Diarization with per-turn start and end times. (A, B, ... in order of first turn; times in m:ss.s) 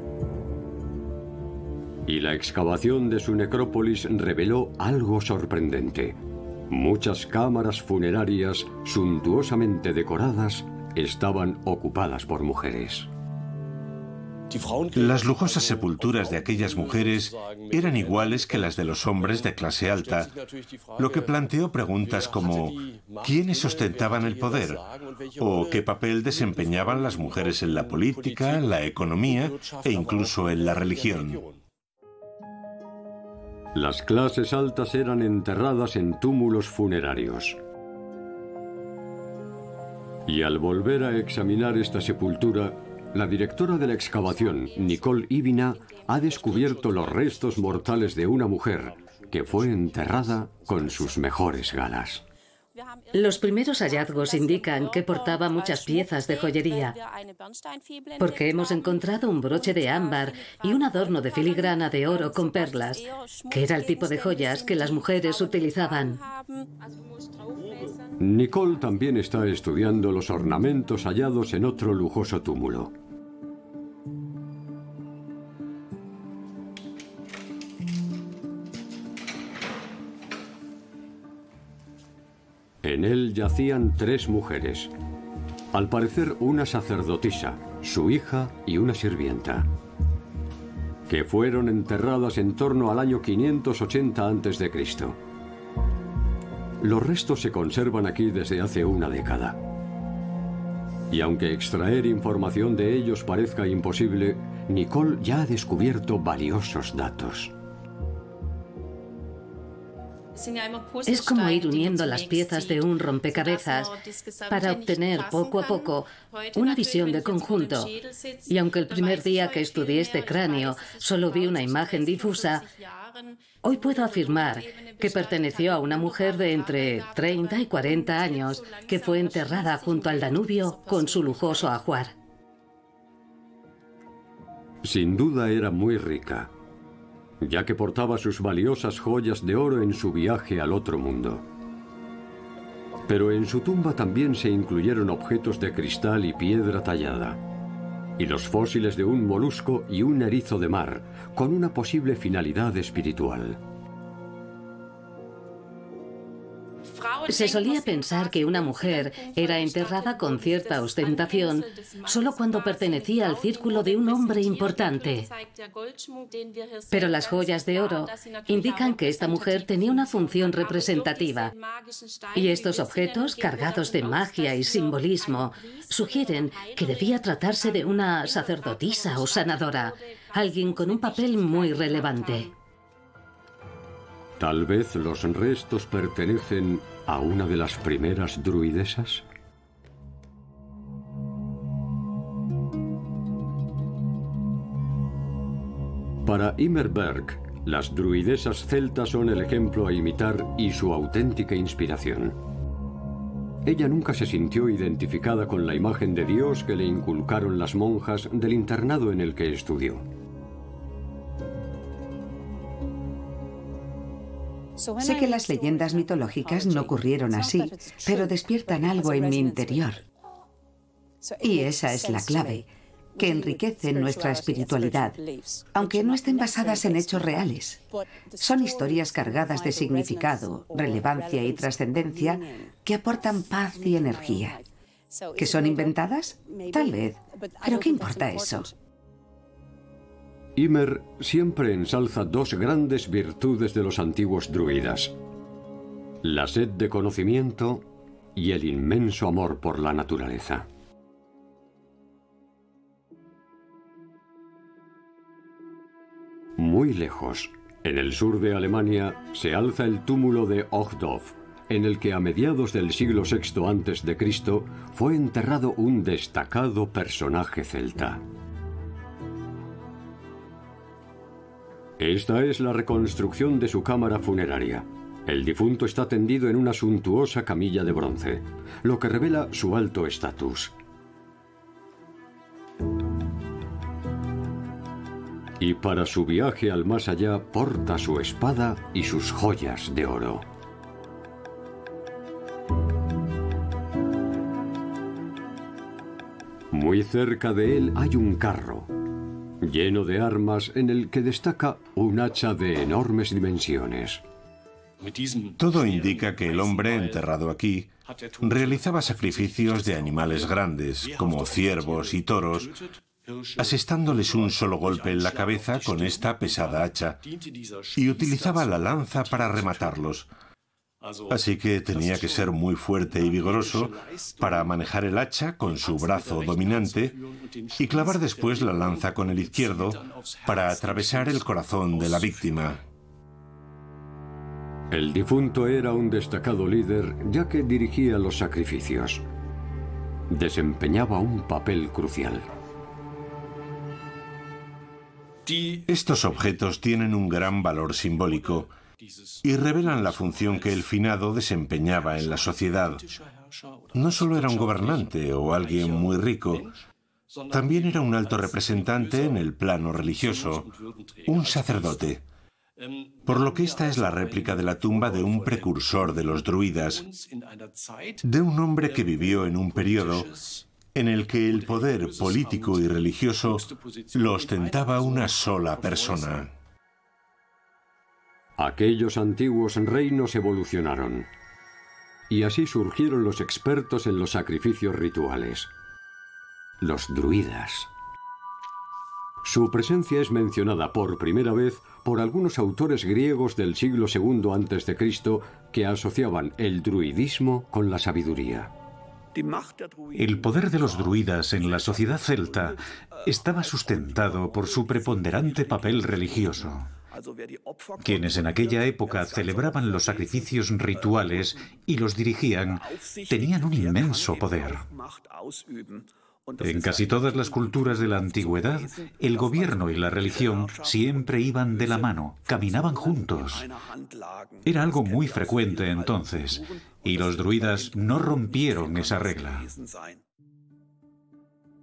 0:02.1-0:06.2 A
0:06.7-0:13.1 A
0:14.9-0:20.3 B
0:21.0-0:24.8 B
0:25.4-0:31.5 B
0:33.7-0:37.6 A
0:40.3-0:52.2 A
0:53.1-0:57.0 C
0:58.2-1:06.2 C
1:08.2-1:12.9 A
1:22.8-1:24.9 A
1:25.7-1:29.7 A
1:31.1-1:35.2 A
1:36.8-1:39.6 A
1:41.1-1:47.5 A
1:51.1-1:54.0 C
1:54.5-1:57.9 C
1:58.5-2:02.7 C
2:03.6-2:12.1 C
2:14.8-2:16.5 A
2:17.4-2:21.4 A
2:23.1-2:27.4 A
2:28.2-2:33.6 A
2:37.3-2:45.3 C
2:46.9-2:51.5 C
2:52.4-3:02.5 C
3:04.4-3:09.2 A
3:16.2-3:22.4 A
3:23.6-3:30.0 A
3:35.0-3:40.0 D
3:41.4-3:45.2 D
3:45.7-3:47.8 D
3:48.4-3:54.6 D
3:55.4-3:58.7 D
4:00.6-4:05.2 A
4:06.2-4:10.7 A
4:16.6-4:28.2 A
4:32.0-4:40.7 A
4:45.6-4:50.4 A
4:56.7-4:58.9 A
4:59.6-5:04.2 A
5:05.6-5:07.9 B
5:08.4-5:12.8 B
5:13.6-5:17.2 B
5:18.0-5:20.3 B
5:21.3-5:27.2 B
5:27.8-5:32.8 B
5:34.9-5:39.2 A
5:40.3-5:42.5 A
5:45.9-5:48.7 B
5:49.4-5:53.1 B
5:53.9-5:56.7 B
5:57.5-6:00.7 B
6:01.3-6:02.2 B
6:03.2-6:07.0 B
6:08.2-6:10.3 B
6:10.9-6:16.5 B
6:18.6-6:21.3 A
6:22.3-6:25.7 A
6:26.8-6:27.9 A
6:29.4-6:38.7 A
6:40.1-6:46.9 E
6:48.0-6:54.9 E
6:56.6-7:03.7 E
7:04.6-7:09.7 E